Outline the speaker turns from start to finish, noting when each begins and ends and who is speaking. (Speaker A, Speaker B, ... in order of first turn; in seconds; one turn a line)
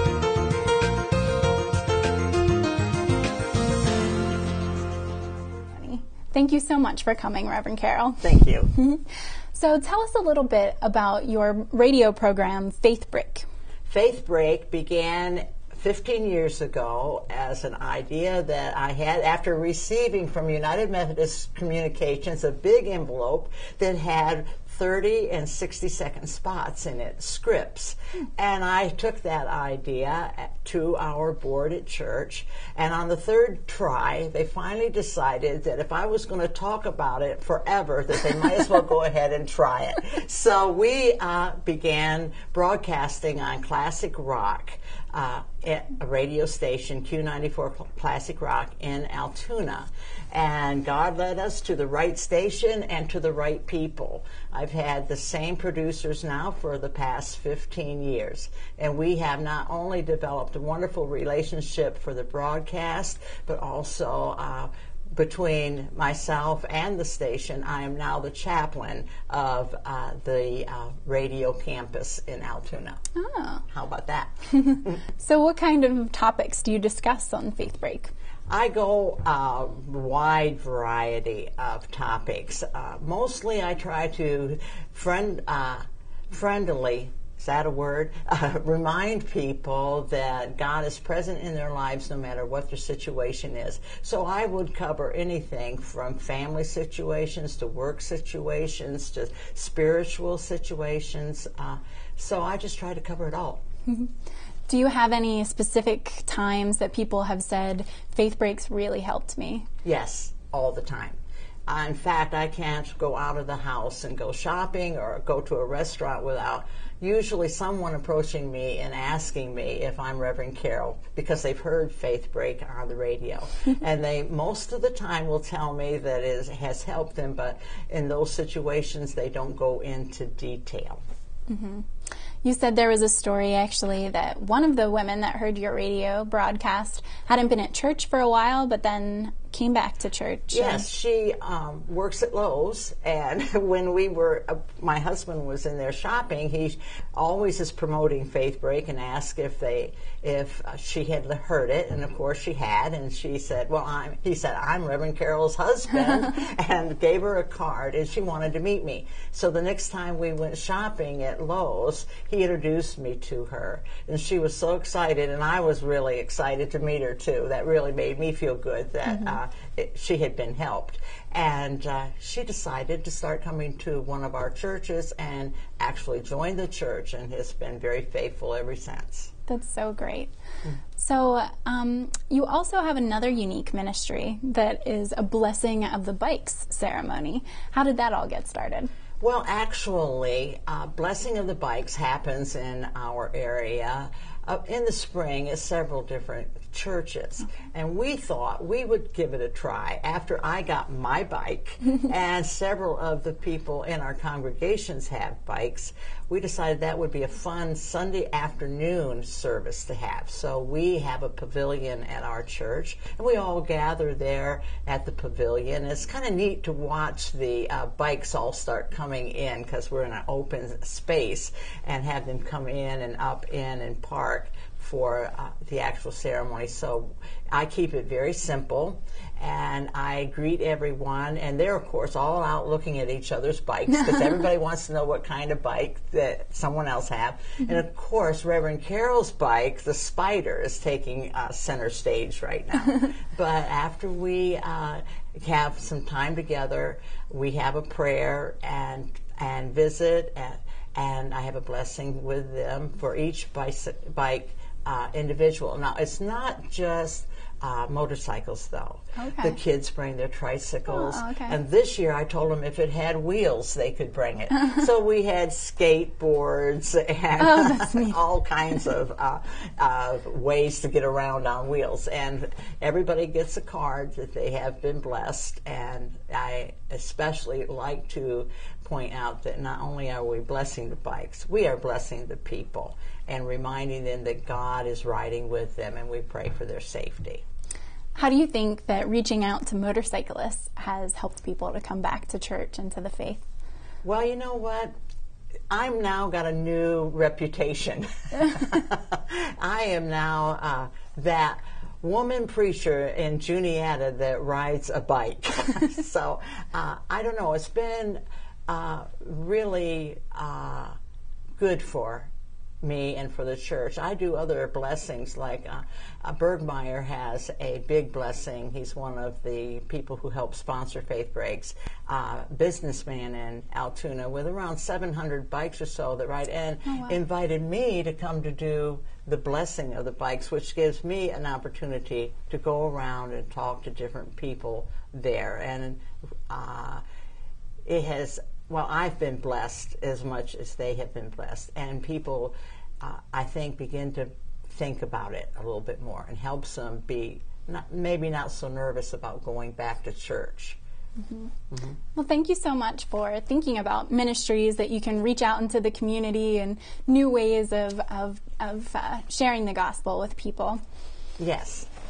Speaker A: 5.7-13.4
Speaker B: 8.2-8.7
Speaker B: 13.9-73.0
Speaker A: 73.2-73.6
Speaker B: 73.7-75.0
Speaker A: 74.7-78.1
Speaker B: 78.5-103.6
Speaker A: 104.7-109.7
Speaker B: 109.8-131.0
Speaker A: 131.5-131.8
Speaker A: 132.4-140.9
Speaker B: 140.5-179.3
Speaker A: 179.5-180.3
Speaker A: 181.0-188.9
Speaker B: 189.2-287.4
Speaker A: 259.1-259.6
Speaker A: 260.9-261.6
Speaker A: 267.4-268.1
Speaker A: 288.1-293.4
Speaker B: 294.0-294.9
Speaker B: 295.7-310.9
Speaker B: 311.6-312.3
Speaker B: 312.8-337.0
Speaker A: 326.9-327.1
Speaker B: 337.8-350.8
Speaker B: 351.7-352.0
Speaker A: 352.1-360.8
Speaker B: 361.4-361.9